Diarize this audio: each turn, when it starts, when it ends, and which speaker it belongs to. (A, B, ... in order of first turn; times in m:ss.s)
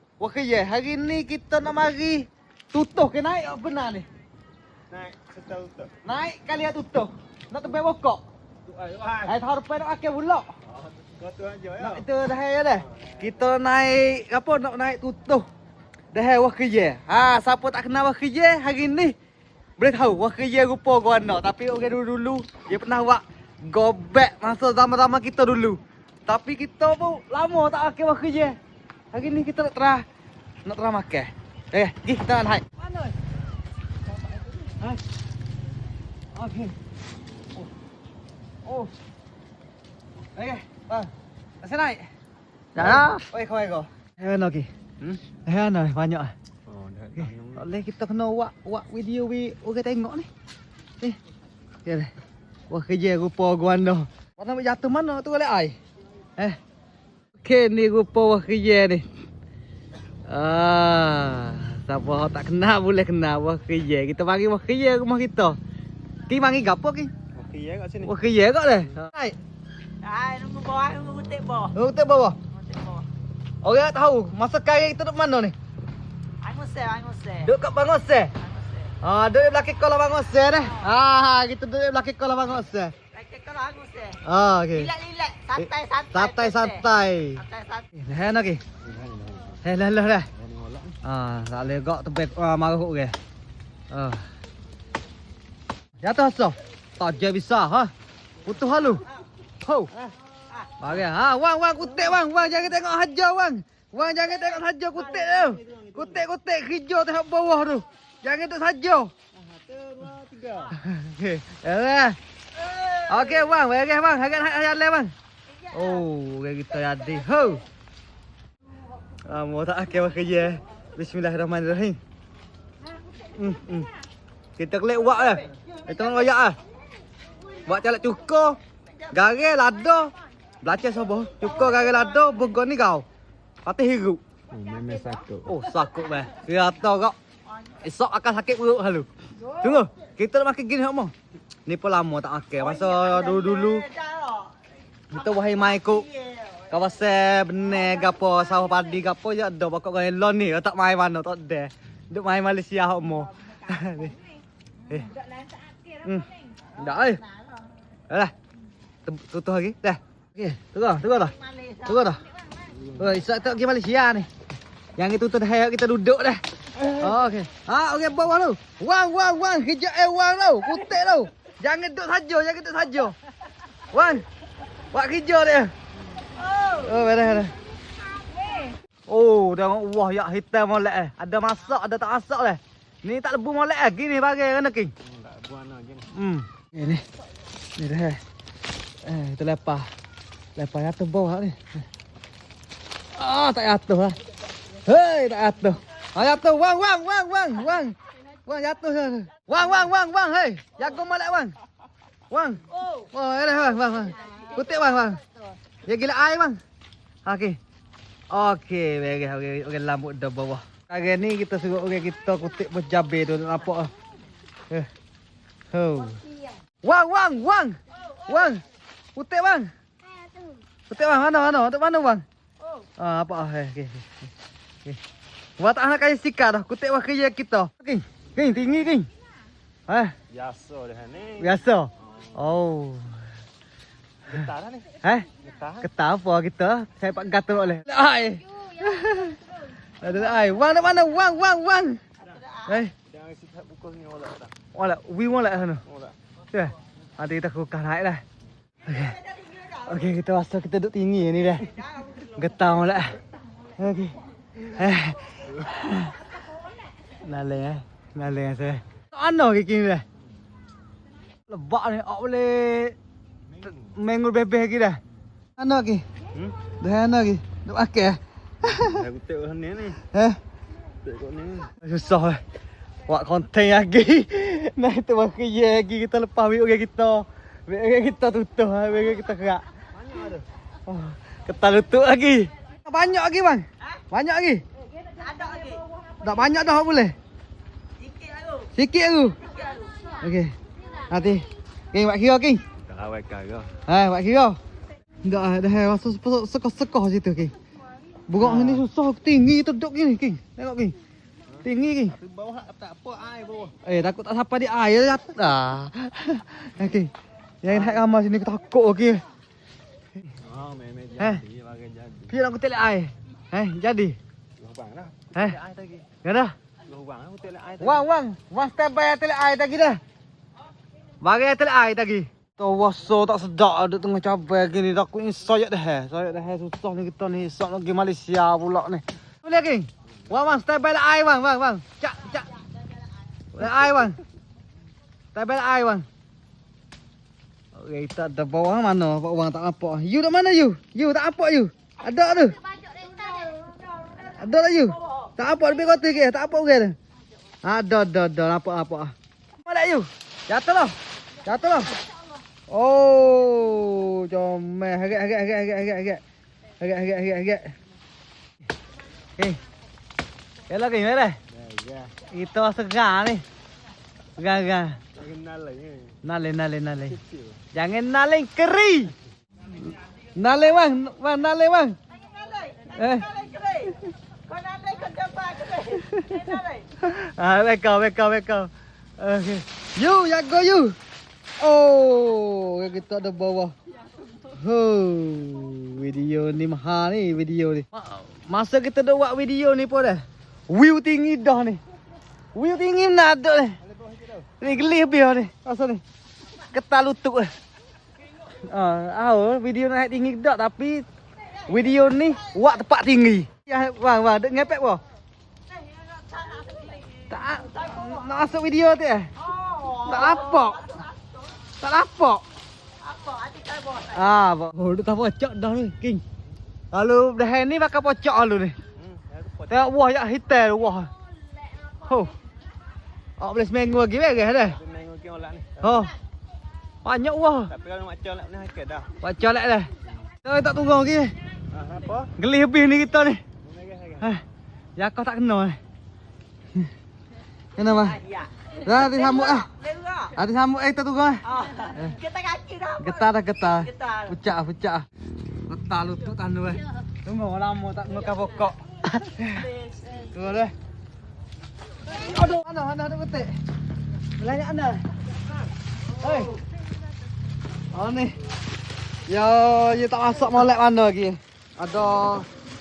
0:00.2-0:04.1 A
0:04.9-0:05.9 B
0:06.0-0:08.2 A
0:08.6-0:09.4 B
0:09.2-0:10.5 A
0:10.7-0:12.0 B
0:11.8-0:15.4 A
0:16.1-0:19.1 A
0:19.8-0:28.6 A
0:29.1-0:30.0 A
0:30.6-0:33.1 A
0:36.3-0:36.7 A
0:38.6-0:38.9 A
0:40.4-0:41.1 A
0:41.6-0:42.1 A
0:42.7-0:43.2 C
0:42.8-0:44.7 A
0:45.4-0:46.3 A
0:46.7-0:47.6 B
0:47.2-0:50.3 A
0:51.8-0:52.1 A
0:52.7-0:55.8 A
0:57.4-0:59.0 A
1:00.3-1:05.6 A
1:06.3-1:07.1 A
1:07.3-1:08.1 B
1:08.0-1:09.4 A
1:10.0-1:11.8 C
1:11.7-1:12.4 A
1:12.5-1:13.1 C
1:13.6-1:15.5 A
1:16.4-1:17.5 C
1:17.4-1:18.3 A
1:18.4-1:18.9 C
1:19.0-1:22.9 A
1:23.1-1:24.2 C
1:24.2-1:24.9 A
1:24.7-1:26.8 C
1:25.6-1:27.4 A
1:27.4-1:27.8 C
1:27.9-1:28.6 A
1:28.8-1:29.6 B
1:29.6-1:30.3 A
1:30.4-1:31.0 B
1:31.0-1:33.1 A
1:33.9-1:34.2 A
1:36.0-1:37.9 A
1:38.4-1:39.0 A
1:39.6-1:39.9 A
1:40.8-1:49.1 A
1:45.1-1:46.2 B
1:49.3-1:50.8 B
1:50.7-1:52.2 A
1:52.6-1:53.0 C
1:53.1-1:55.1 A
1:55.6-1:56.0 C
1:55.7-1:57.6 A
1:59.3-2:02.0 A
2:03.3-2:03.9 A
2:04.6-2:06.6 A
2:07.7-2:08.6 A
2:09.1-2:13.0 A
2:11.7-2:12.0 C
2:13.6-2:14.2 A
2:14.5-2:15.6 B
2:15.4-2:17.2 A
2:17.8-2:21.1 A
2:21.7-2:23.9 A
2:22.6-2:24.5 C
2:25.1-2:26.1 A
2:25.3-2:26.6 C
2:26.7-2:34.2 A
2:34.9-2:35.1 A
2:36.0-2:37.2 A
2:39.0-2:42.2 A
2:41.4-2:42.0 C
2:42.8-2:43.1 B
2:42.9-2:44.3 A
2:45.0-2:53.1 A
2:46.8-2:47.1 B
2:53.9-2:54.2 A
2:54.9-2:55.7 A
2:56.5-2:56.8 C
2:56.7-2:57.5 A
2:59.1-3:04.9 A
3:05.0-3:06.1 B
3:06.1-3:07.0 A
3:07.8-3:08.2 A
3:09.0-3:09.9 A
3:10.6-3:11.6 A
3:13.1-3:14.2 A
3:14.8-3:21.5 A
3:22.3-3:25.2 A
3:24.2-3:24.6 C
3:25.8-3:26.6 A
3:27.2-3:27.6 A
3:28.3-3:33.9 A
3:35.7-3:36.2 A
3:36.8-3:38.6 A
3:39.1-3:39.7 A
3:40.9-3:42.2 A
3:43.0-3:44.1 A
3:45.6-3:49.1 A
3:49.9-3:50.1 A
3:50.3-3:52.3 B
3:51.4-3:53.2 A
3:54.2-3:55.9 B
3:55.0-3:55.3 A
3:55.8-3:59.5 A
4:00.0-4:02.0 A
4:02.2-4:02.8 C
4:02.7-4:02.9 A
4:03.0-4:04.5 B
4:04.7-4:05.8 A
4:05.8-4:06.2 B
4:06.5-4:08.2 A
4:08.8-4:13.2 A
4:09.1-4:09.7 C
4:13.8-4:16.2 A
4:17.2-4:20.0 A
4:21.5-4:23.0 A
4:23.8-4:25.0 A
4:25.6-4:26.0 A
4:26.8-4:29.1 A
4:28.8-4:30.0 B
4:30.1-4:30.4 A
4:31.0-4:31.7 B
4:31.8-4:32.4 A
4:33.1-4:39.6 A
4:39.9-4:40.5 B
4:40.9-4:44.6 A
4:45.1-4:45.8 C
4:46.2-4:47.2 A
4:48.0-4:48.7 C
4:48.7-4:49.4 A
4:49.4-4:50.1 C
4:50.2-4:50.5 A
4:51.1-4:52.6 A
4:52.8-4:53.7 B
4:53.9-4:54.6 A
4:55.2-4:57.5 A
4:58.3-5:00.9 A
4:58.4-4:58.8 B
5:01.5-5:03.8 B
5:01.6-5:02.2 A
5:03.8-5:07.1 A
5:07.6-5:09.2 A
5:07.7-5:08.0 B
5:10.4-5:12.3 B
5:12.3-5:14.2 A
5:14.6-5:16.1 B
5:15.3-5:15.6 A
5:16.2-5:16.5 A
5:16.9-5:18.0 B
5:17.8-5:20.0 A
5:21.2-5:32.5 A
5:33.5-5:34.2 A
5:35.3-5:36.0 A
5:37.8-5:42.6 A
5:42.8-5:44.3 C
5:44.3-5:47.0 A
5:47.6-5:52.0 A
5:52.7-5:56.2 A
5:56.8-5:57.7 A
6:00.7-6:01.4 A
6:01.5-6:02.1 B
6:02.3-6:03.4 A
6:04.4-6:05.0 A
6:05.2-6:06.2 B
6:06.2-6:07.2 A
6:07.1-6:07.6 B
6:07.7-6:09.1 A
6:10.4-6:12.0 A
6:12.2-6:16.9 C
6:12.9-6:13.3 A
6:16.0-6:16.5 A
6:17.0-6:21.0 A
6:21.6-6:23.8 A
6:24.5-6:31.8 A
6:32.6-6:33.8 A
6:33.9-6:34.5 B
6:34.6-6:36.0 A
6:36.7-6:37.5 A
6:38.6-6:41.1 A
6:41.7-6:45.0 A
6:45.7-6:48.2 C
6:47.3-6:49.3 A
6:49.4-6:51.4 C
6:49.9-6:51.0 A
6:51.8-6:52.4 A
6:53.0-6:54.2 C
6:54.1-6:56.2 A
6:56.9-6:58.8 A
6:59.0-6:59.9 B
6:59.7-7:01.1 A
7:02.0-7:02.3 A
7:03.4-7:04.8 A
7:04.7-7:06.0 B
7:05.8-7:06.2 A
7:07.0-7:07.7 A
7:07.7-7:09.1 B
7:09.2-7:09.9 A
7:10.4-7:11.3 A
7:11.7-7:12.3 B
7:12.4-7:13.4 A
7:13.6-7:14.3 B
7:15.0-7:15.8 A
7:17.8-7:18.2 A
7:18.0-7:20.3 C
7:18.8-7:19.7 A
7:20.4-7:22.2 A
7:21.4-7:23.3 C
7:23.0-7:25.1 A
7:23.8-7:24.3 C
7:25.7-7:29.7 A
7:29.8-7:30.2 C
7:30.3-7:30.7 A
7:32.1-7:33.6 A
7:34.4-7:35.1 A
7:36.2-7:36.6 A
7:37.9-7:38.4 A
7:39.3-7:42.5 A